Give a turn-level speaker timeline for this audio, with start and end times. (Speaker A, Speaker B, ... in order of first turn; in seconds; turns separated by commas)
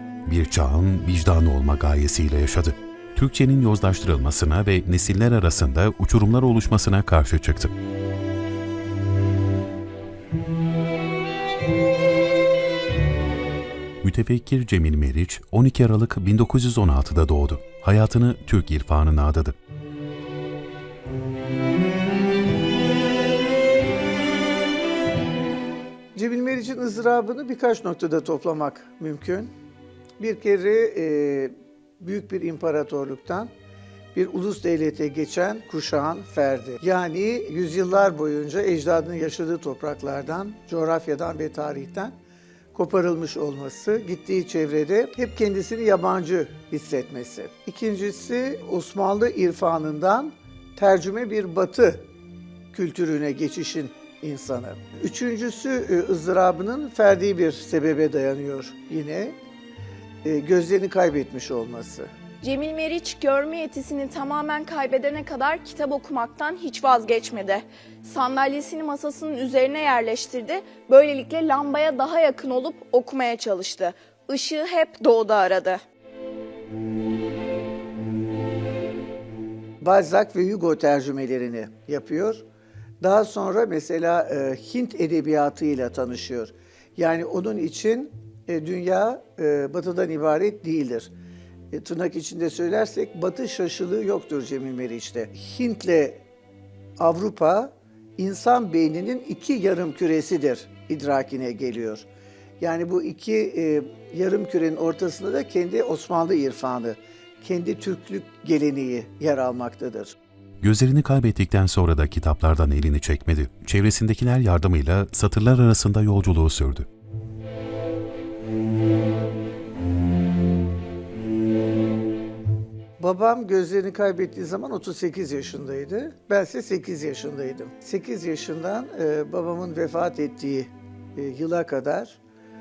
Speaker A: 0.3-7.7, Speaker A: 14.0-19.5, Speaker B: 26.1-29.5, Speaker B: 30.2-33.5, Speaker B: 34.1-42.1, Speaker B: 42.7-52.1, Speaker B: 52.7-59.4, Speaker B: 60.2-62.1, Speaker C: 62.4-75.8, Speaker B: 79.8-82.4, Speaker B: 83.0-91.1, Speaker B: 91.7-96.2, Speaker B: 97.0-102.1, Speaker B: 102.6-110.2, Speaker A: 110.6-116.9, Speaker B: 123.0-132.2